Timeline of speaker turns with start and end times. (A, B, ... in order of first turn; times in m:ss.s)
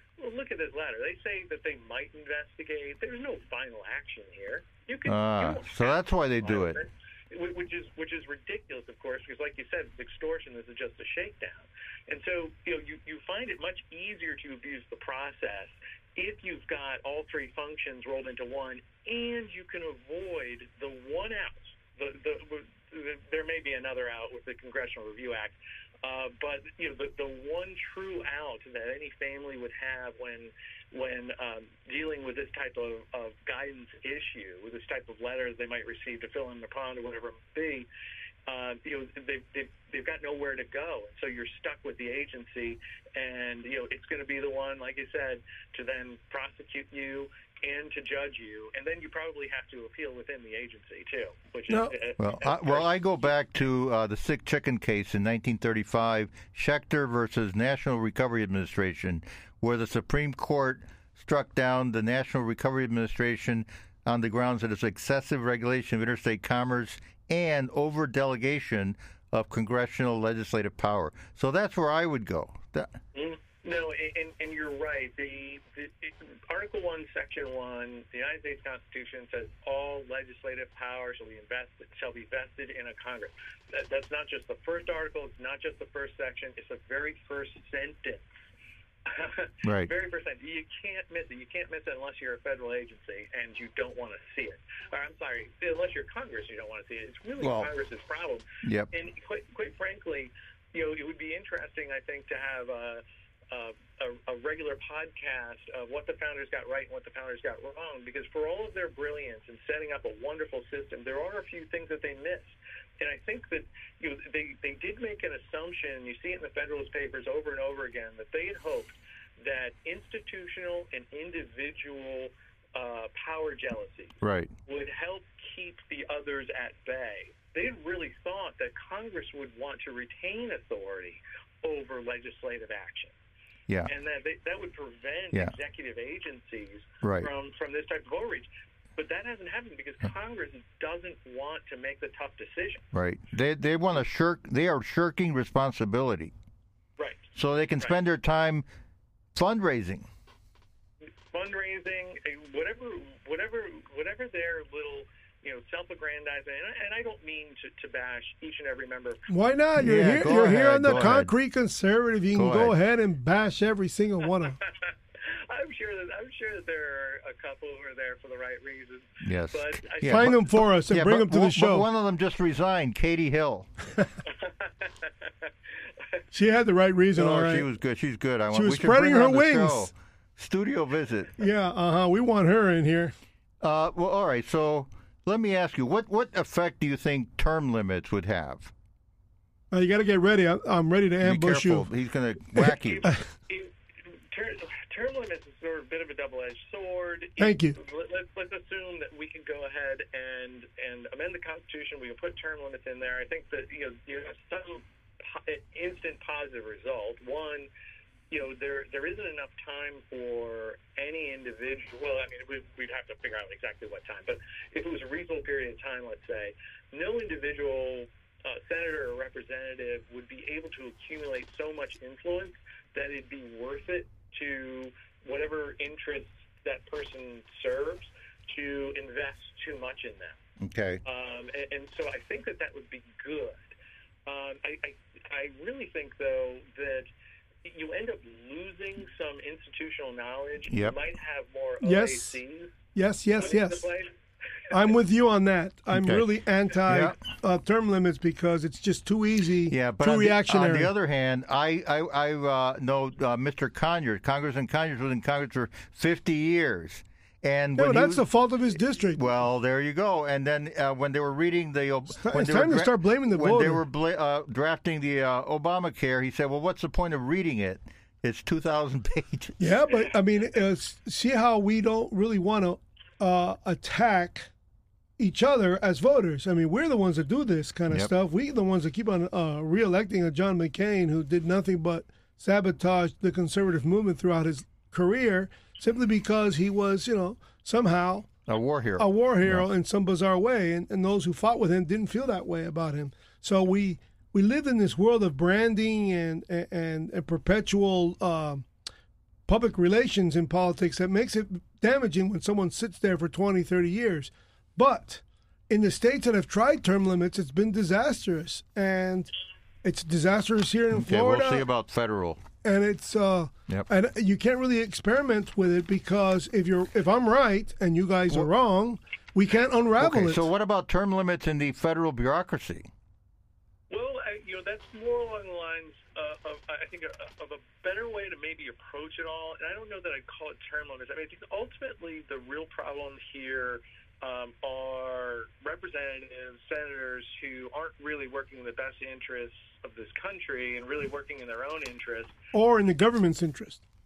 0:00.2-0:37.9 A
0:05.0-0:06.8 B
0:38.5-0:53.3 A
0:52.2-1:13.0 B
1:13.1-1:28.2 A
1:29.0-2:13.1 A
1:29.6-1:29.9 B
1:37.4-1:37.7 B
1:38.6-1:38.9 B
2:04.2-2:04.5 B
2:13.9-2:22.8 A
2:17.0-2:17.3 B
2:22.9-2:26.3 B
2:27.0-2:27.2 A
2:27.3-2:28.6 B
2:29.3-2:30.0 B
2:31.3-2:39.3 A
2:39.3-2:44.6 C
2:39.8-2:41.3 B
2:42.3-2:42.8 B
2:44.7-2:50.3 A
2:49.2-2:53.7 B
2:50.1-2:51.8 C
2:54.4-2:55.3 A
2:56.3-2:57.7 C
2:57.2-3:01.3 B
2:58.5-2:59.9 C
3:01.4-3:03.1 C
3:03.6-3:08.7 B
3:09.7-3:11.9 C
3:11.2-3:13.1 B
3:12.6-3:13.2 C
3:12.8-3:27.7 A
3:17.4-3:17.8 C
3:28.3-3:50.4 A
3:50.6-3:51.0 B
3:51.0-3:53.7 A
3:54.2-3:57.1 A
3:57.6-4:02.8 A
4:00.7-4:01.0 B
4:01.8-4:02.4 C
4:02.9-4:03.9 C
4:03.4-4:04.1 A
4:04.7-4:10.9 C
4:05.9-4:06.3 B
4:06.9-4:07.2 B
4:09.7-4:18.2 B
4:17.8-4:19.2 C
4:19.1-4:29.6 B
4:22.2-4:23.8 C
4:29.6-4:34.5 C
4:35.2-4:48.3 C
4:48.5-4:49.6 B
4:49.0-4:58.7 C
4:59.5-5:09.3 C
5:09.8-5:11.6 C
5:10.9-5:12.4 B
5:12.6-5:20.4 C
5:20.0-5:22.9 B
5:23.9-5:42.3 A
5:42.5-5:43.8 C